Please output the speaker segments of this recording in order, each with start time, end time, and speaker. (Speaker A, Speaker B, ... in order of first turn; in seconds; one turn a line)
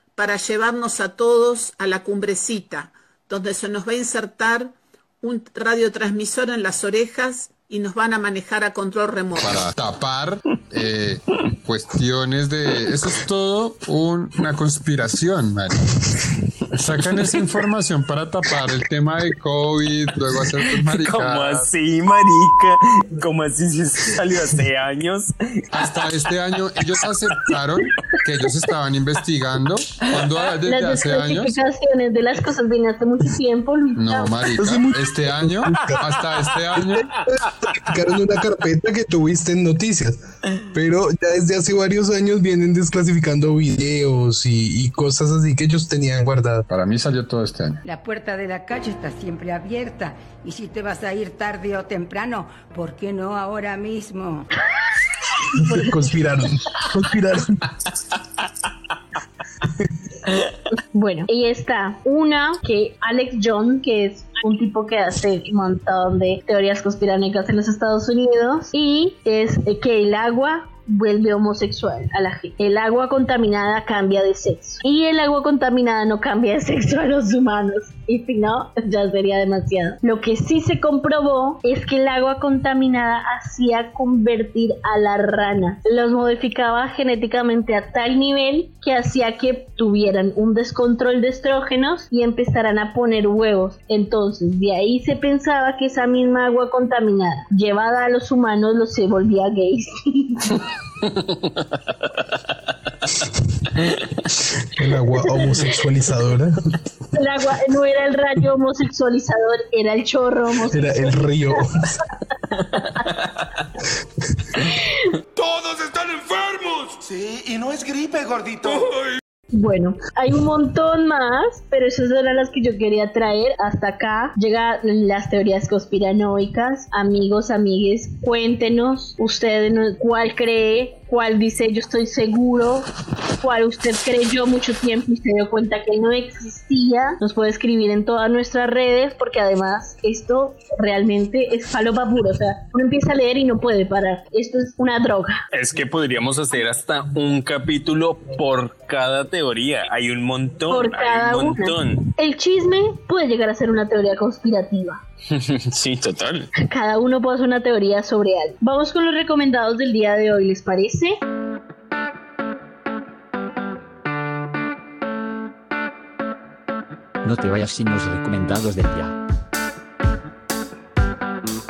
Speaker A: 0.2-9.6
Speaker B: 9.4-15.9
Speaker B: 16.7-21.7
Speaker C: 20.6-26.1
Speaker B: 25.7-31.6
Speaker D: 30.7-34.3
Speaker B: 34.0-37.1
Speaker E: 34.6-36.0
Speaker E: 37.3-40.2
Speaker E: 40.7-46.6
Speaker B: 46.7-47.8
Speaker F: 47.9-54.5
Speaker E: 55.5-57.6
Speaker D: 60.9-100.6
Speaker E: 104.8-106.5
Speaker D: 107.1-111.3
Speaker E: 110.7-112.0
Speaker G: 115.3-119.2
Speaker D: 119.5-132.9
Speaker D: 133.4-145.4
Speaker C: 145.5-152.1
Speaker D: 150.7-155.0
Speaker C: 155.3-156.5
Speaker D: 156.6-161.1
Speaker H: 167.2-169.2